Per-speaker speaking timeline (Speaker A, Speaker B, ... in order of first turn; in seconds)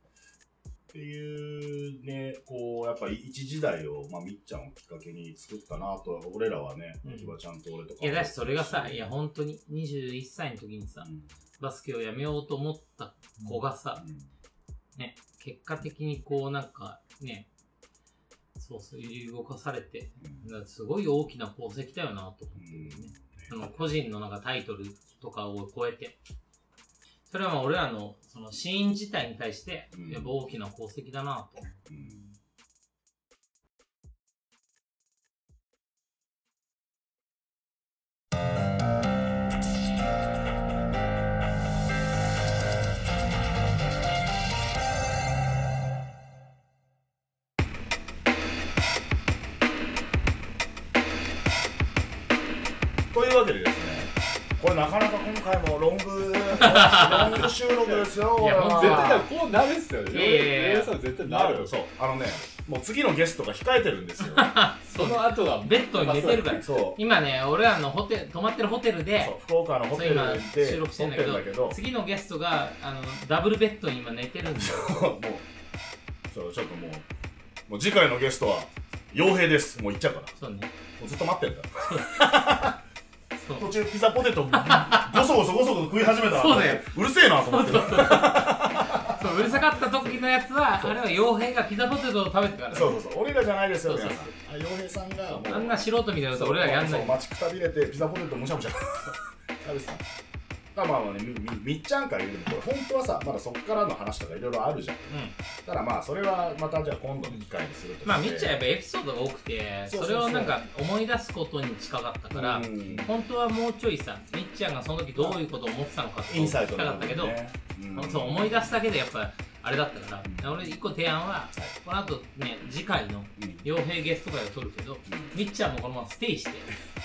Speaker A: 0.9-9.1, 11.0-11.3, 14.0-14.2, 20.2-20.5, 22.6-23.2, 29.9-30.4, 31.9-32.2, 53.1-59.3, 61.2-64.5, 66.4-67.0, 69.2-71.8, 74.6-75.5, 76.3-77.1, 77.7-80.3, 81.0-82.8, 83.6-90.2, 92.7-100.0, 100.7-108.6, 109.9-110.6, 112.3-113.1, 116.3-118.8, 120.2-120.7, 123.4-123.6, 125.1-125.3
Speaker B: 7.0-7.3, 8.0-14.0, 14.9-17.5, 18.6-26.2, 27.3-31.8, 56.5-57.5, 58.4-59.2, 60.1-60.9, 64.3-69.3, 69.9-75.1, 80.4-80.7, 81.8-82.3, 83.4-83.7, 84.5-85.2, 86.3-93.0, 93.8-94.3, 95.3-97.2, 105.1-105.3, 108.0-117.4, 117.9-126.7
Speaker C: 57.1-61.7, 64.8-66.7